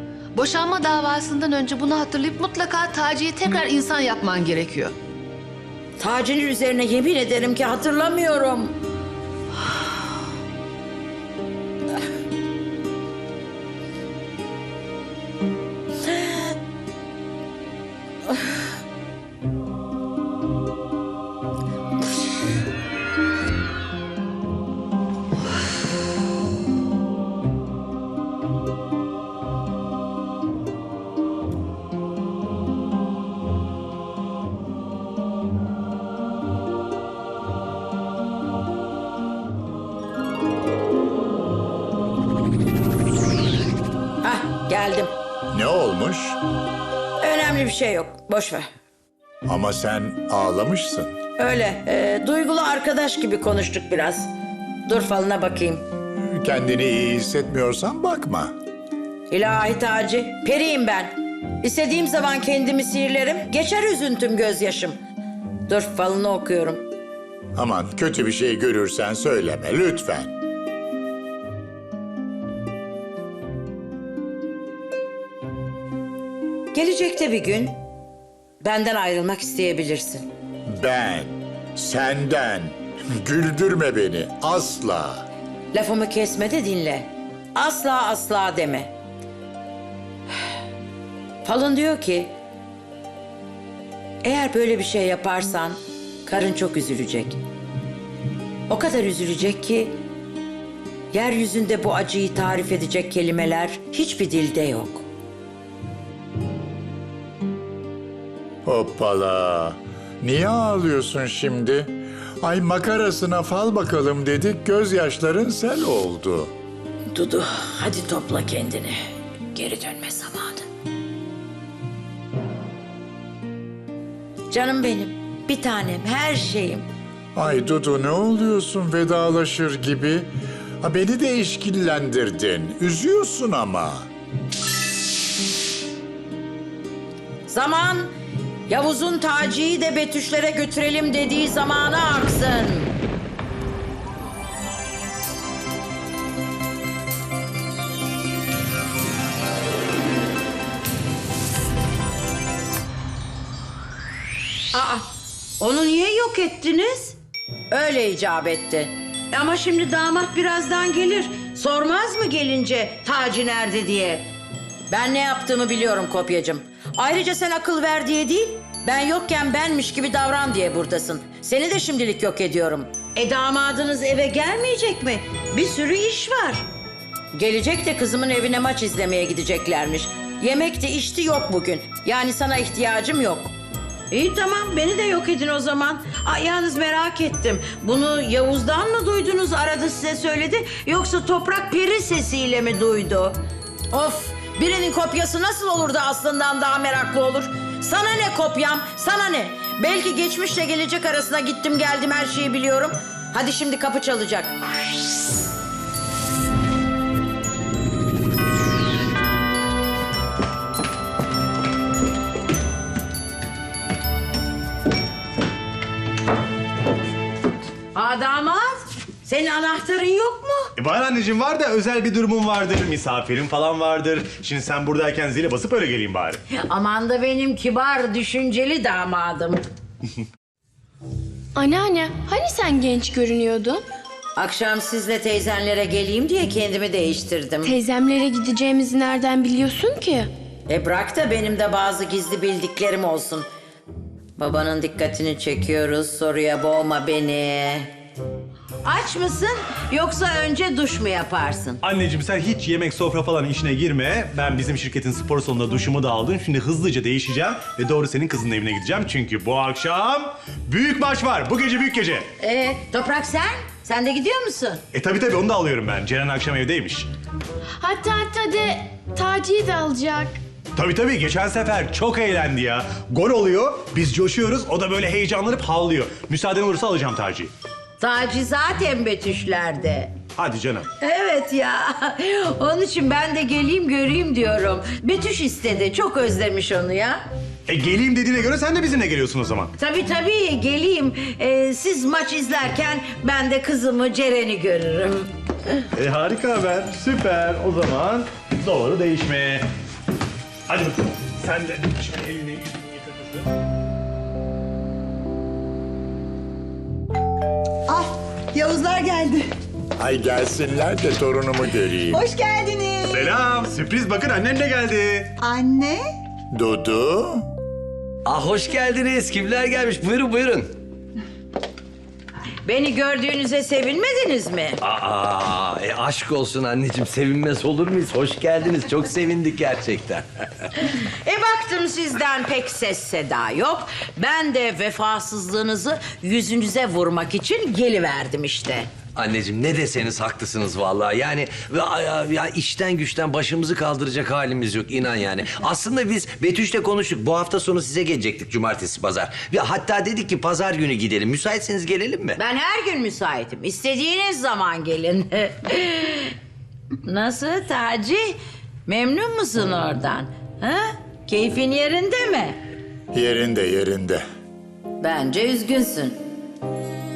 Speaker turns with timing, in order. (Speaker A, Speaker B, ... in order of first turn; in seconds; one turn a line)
Speaker A: 0.3-4.9
Speaker B: 6.0-8.7
Speaker B: 44.2-45.1
Speaker C: 45.5-46.4
Speaker B: 47.2-48.7
Speaker C: 49.5-51.2
Speaker B: 51.4-54.3
Speaker B: 54.9-55.8
Speaker C: 56.2-58.5
Speaker B: 59.3-65.0
Speaker B: 65.7-66.8
Speaker C: 67.5-70.3
Speaker B: 76.7-77.8
Speaker B: 78.6-80.3
Speaker C: 80.7-85.2
Speaker B: 85.7-88.9
Speaker B: 91.4-92.3
Speaker B: 94.2-97.4
Speaker B: 98.7-100.0
Speaker B: 101.1-105.0
Speaker C: 108.6-116.5
Speaker B: 117.1-119.0
Speaker B: 119.5-120.7
Speaker B: 124.5-126.8
Speaker C: 127.3-134.1
Speaker B: 137.5-138.1
Speaker B: 138.7-142.9
Speaker B: 154.7-155.1
Speaker B: 155.6-157.2
Speaker B: 157.7-164.3
Speaker B: 164.9-176.7
Speaker B: 177.3-183.5
Speaker B: 184.1-193.4
Speaker B: 193.9-204.5
Speaker B: 217.9-220.7
Speaker D: 220.8-226.4
Speaker B: 226.5-229.6
Speaker E: 231.5-233.8
Speaker B: 234.4-237.7
Speaker E: 237.6-240.3
Speaker B: 240.7-243.4
Speaker B: 244.4-247.9
Speaker B: 248.8-251.8
Speaker D: 251.8-262.3
Speaker B: 262.4-264.8
Speaker D: 264.9-267.1
Speaker E: 267.8-270.4
Speaker D: 270.8-277.5
Speaker B: 278.0-280.1
Speaker D: 280.4-280.9
Speaker B: 281.0-287.2
Speaker D: 287.7-289.7
Speaker B: 289.8-295.3
Speaker D: 295.9-299.7
Speaker D: 300.7-303.5
Speaker F: 307.9-309.4
Speaker C: 310.0-312.2
Speaker F: 312.1-313.3
Speaker D: 313.1-315.3
Speaker F: 315.4-316.0
Speaker C: 316.5-317.5
Speaker G: 318.2-320.7
Speaker B: 322.6-324.8
Speaker G: 324.8-330.2
Speaker B: 330.8-338.9
Speaker G: 339.1-352.4
Speaker B: 352.4-356.3
Speaker B: 357.0-362.6
Speaker C: 363.1-364.2
Speaker B: 365.0-366.2